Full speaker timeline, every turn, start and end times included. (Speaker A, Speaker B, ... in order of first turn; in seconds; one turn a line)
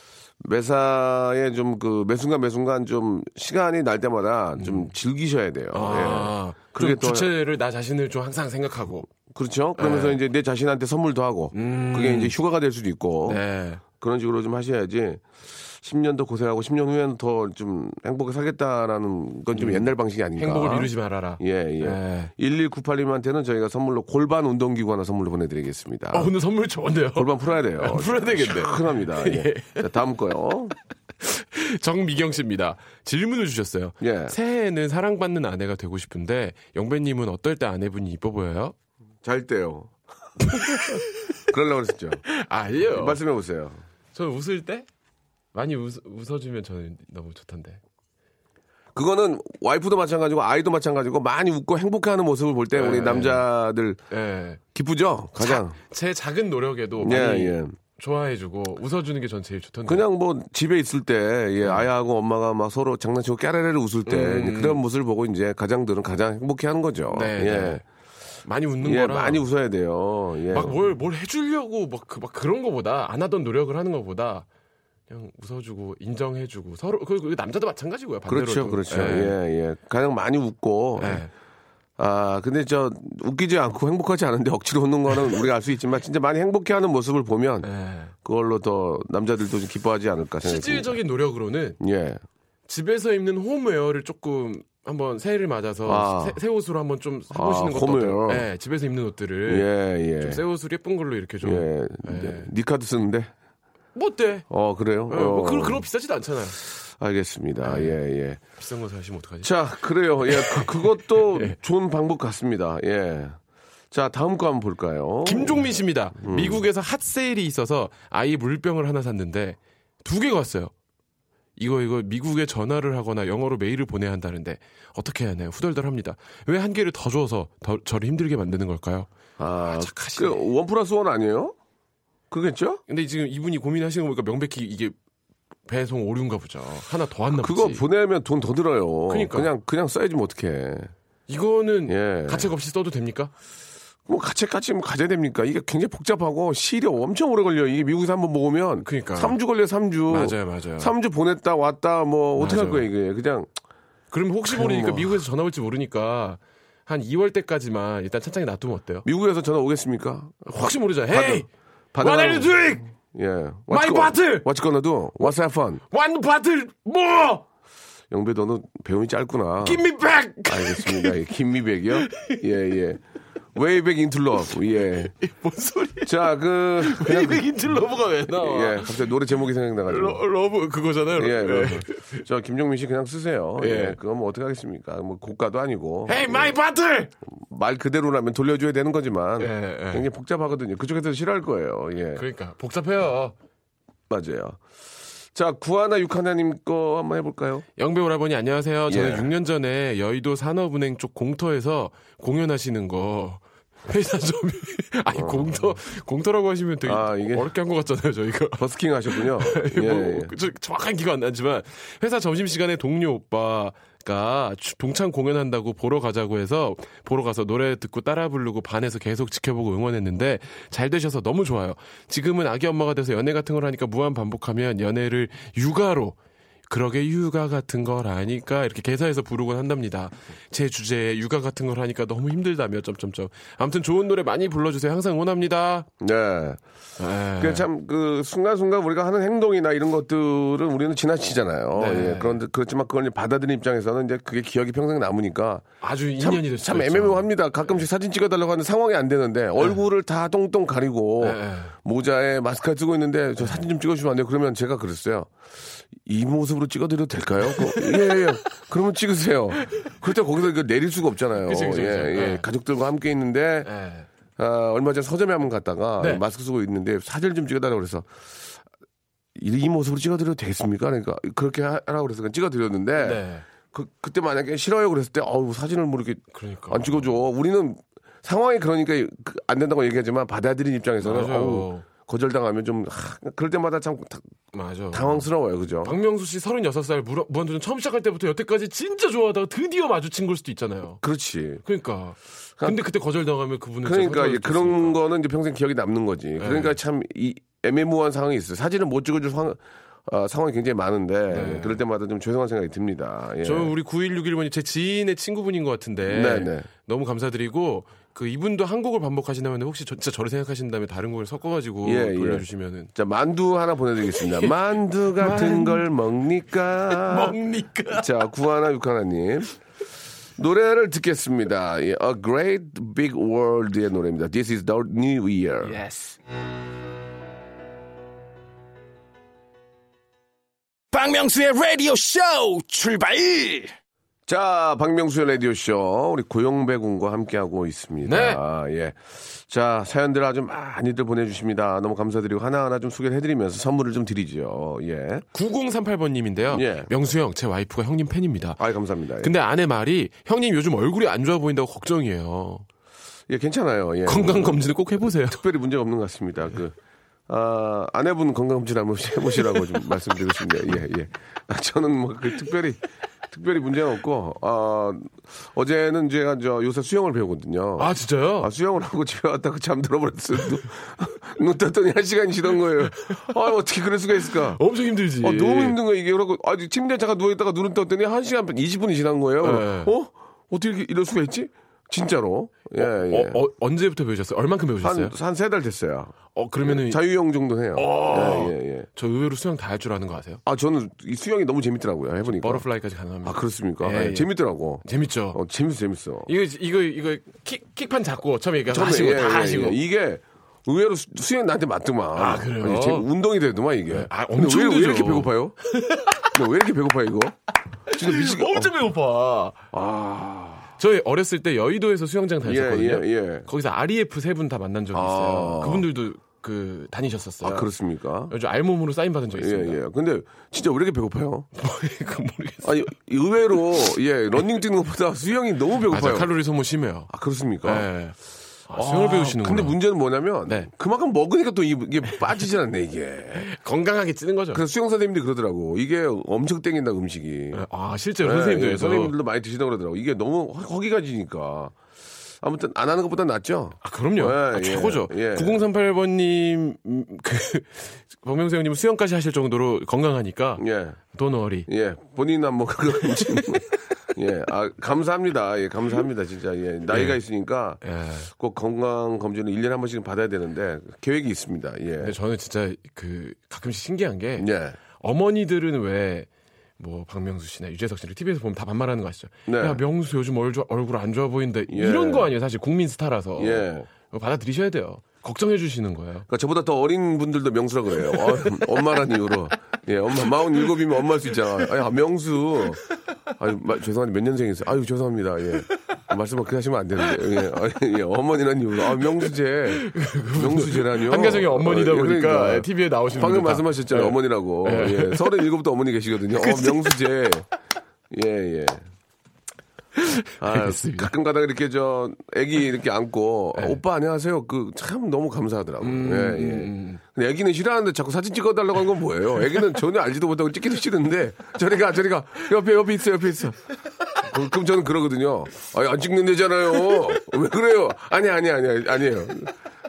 Speaker A: 0.4-7.3
Speaker B: 4.6-4.9
Speaker B: 5.7-9.1
Speaker A: 9.3-26.3
Speaker B: 9.8-10.2
Speaker B: 11.5-12.3
Speaker B: 13.2-13.8
Speaker B: 19.5-22.3
Speaker B: 26.1-29.9
Speaker A: 27.1-30.7
Speaker B: 31.2-38.7
Speaker A: 34.0-34.4
Speaker A: 39.2-39.9
Speaker B: 40.5-41.1
Speaker A: 40.8-42.2
Speaker B: 42.3-43.2
Speaker A: 42.9-43.8
Speaker B: 44.1-44.9
Speaker B: 45.5-47.8
Speaker A: 49.0-54.0
Speaker B: 52.7-53.5
Speaker B: 54.1-54.6
Speaker A: 54.7-55.8
Speaker B: 55.4-60.1
Speaker A: 57.0-57.8
Speaker A: 59.9-67.8
Speaker B: 61.6-61.9
Speaker B: 64.1-64.8
Speaker B: 67.1-67.8
Speaker B: 68.5-69.4
Speaker A: 68.8-70.8
Speaker B: 70.5-74.5
Speaker B: 75.1-79.4
Speaker A: 78.3-81.3
Speaker B: 81.0-81.3
Speaker A: 82.0-87.7
Speaker B: 87.6-88.1
Speaker A: 88.2-90.9
Speaker B: 90.4-91.8
Speaker A: 91.8-92.2
Speaker B: 92.7-99.7
Speaker A: 95.9-96.4
Speaker A: 97.3-98.5
Speaker A: 99.5-100.4
Speaker B: 100.2-102.5
Speaker A: 101.4-103.3
Speaker B: 104.0-104.5
Speaker A: 104.5-105.8
Speaker B: 105.1-106.6
Speaker A: 106.9-108.4
Speaker B: 107.6-108.0
Speaker B: 108.6-109.5
Speaker A: 109.4-113.4
Speaker B: 110.3-111.6
Speaker A: 113.9-115.7
Speaker B: 115.2-120.7
Speaker A: 116.2-116.6
Speaker B: 121.6-130.5
Speaker A: 129.4-131.6
Speaker A: 132.3-132.8
Speaker B: 132.9-134.9
Speaker B: 135.7-137.8
Speaker A: 137.3-140.9
Speaker B: 139.1-139.5
Speaker B: 141.3-143.3
Speaker A: 141.9-142.5
Speaker A: 144.1-153.5
Speaker B: 148.8-149.4
Speaker B: 150.1-150.9
Speaker B: 152.4-152.9
Speaker B: 154.1-159.1
Speaker A: 154.5-155.2
Speaker A: 159.1-165.8
Speaker B: 160.5-161.5
Speaker B: 162.0-162.9
Speaker B: 163.7-164.5
Speaker B: 165.9-167.4
Speaker A: 168.1-169.9
Speaker B: 169.6-171.2
Speaker A: 170.5-173.0
Speaker B: 172.0-172.4
Speaker A: 173.6-175.1
Speaker B: 175.1-176.2
Speaker A: 176.1-177.5
Speaker B: 176.8-179.1
Speaker A: 178.3-180.2
Speaker B: 179.9-182.2
Speaker A: 181.2-186.5
Speaker B: 183.6-184.0
Speaker B: 186.1-187.1
Speaker A: 187.3-192.2
Speaker B: 189.4-190.1
Speaker B: 192.2-193.3
Speaker A: 194.1-194.6
Speaker A: 195.3-197.7
Speaker B: 197.8-226.2
Speaker A: 198.9-199.3
Speaker A: 205.1-205.6
Speaker A: 206.8-207.5
Speaker A: 208.6-210.3
Speaker B: 226.7-235.9
Speaker A: 236.0-236.6
Speaker B: 237.0-237.7
Speaker A: 237.4-245.7
Speaker B: 241.7-242.4
Speaker B: 245.8-247.3
Speaker A: 246.2-255.3
Speaker B: 251.2-251.7
Speaker B: 253.4-253.7
Speaker A: 255.9-263.7
Speaker B: 257.5-257.9
Speaker B: 261.4-262.5
Speaker B: 263.6-264.1
Speaker A: 264.4-268.1
Speaker A: 269.4-284.2
Speaker B: 273.0-273.4
Speaker B: 276.3-277.1
Speaker B: 281.0-281.9
Speaker B: 284.5-285.3
Speaker A: 284.9-286.0
Speaker B: 285.8-291.0
Speaker A: 291.0-291.6
Speaker B: 291.6-295.0
Speaker A: 293.8-303.7
Speaker B: 296.4-296.8
Speaker B: 301.3-301.8
Speaker B: 303.4-312.9
Speaker A: 306.1-306.7
Speaker A: 311.8-317.4
Speaker B: 314.3-314.5
Speaker B: 315.2-315.9
Speaker B: 316.9-318.1
Speaker A: 317.9-319.6
Speaker A: 320.4-325.8
Speaker B: 325.6-326.2
Speaker C: 330.9-333.7
Speaker A: 334.3-345.2
Speaker B: 338.1-338.4
Speaker B: 345.3-348.6
Speaker A: 346.5-346.9
Speaker A: 348.6-349.4
Speaker B: 349.2-352.7
Speaker A: 353.3-354.7
Speaker B: 354.1-355.4
Speaker A: 355.3-356.8
Speaker A: 357.3-374.6
Speaker B: 367.8-368.5
Speaker B: 372.9-373.3
Speaker B: 374.5-375.8
Speaker A: 375.2-383.4
Speaker B: 379.4-379.9
Speaker B: 382.8-385.1
Speaker A: 384.8-388.9
Speaker B: 386.3-387.0
Speaker B: 387.8-390.4
Speaker A: 390.5-392.6
Speaker B: 392.3-394.3
Speaker A: 393.2-396.3
Speaker B: 394.8-395.4
Speaker B: 396.3-399.8
Speaker A: 398.7-405.6
Speaker B: 402.1-403.1
Speaker B: 403.9-406.4
Speaker A: 406.3-407.4
Speaker B: 407.9-409.6
Speaker A: 407.9-408.7
Speaker A: 409.7-410.7
Speaker B: 410.8-417.7
Speaker A: 412.4-413.5
Speaker A: 414.9-415.9
Speaker A: 417.4-418.3
Speaker B: 418.3-419.8
Speaker A: 419.3-421.5
Speaker B: 421.6-422.8
Speaker A: 422.6-426.3
Speaker B: 425.8-427.1
Speaker A: 427.1-427.9
Speaker B: 427.6-428.2
Speaker B: 428.7-429.8
Speaker A: 428.8-433.5
Speaker B: 433.4-434.6
Speaker A: 434.5-437.6
Speaker B: 437.5-439.1
Speaker A: 438.2-441.7
Speaker A: 442.4-445.6
Speaker B: 443.8-451.7
Speaker A: 450.6-451.0
Speaker A: 451.7-462.1
Speaker B: 456.9-457.2
Speaker B: 457.8-458.3
Speaker B: 462.0-476.3
Speaker A: 464.4-464.8
Speaker A: 469.5-469.8
Speaker A: 471.7-472.3
Speaker A: 473.4-473.9
Speaker A: 476.3-482.8
Speaker A: 483.4-497.5
Speaker B: 489.7-495.4
Speaker B: 496.4-497.0
Speaker A: 498.1-498.8
Speaker B: 500.0-501.1
Speaker A: 500.4-513.6
Speaker B: 505.8-507.0
Speaker A: 514.2-519.5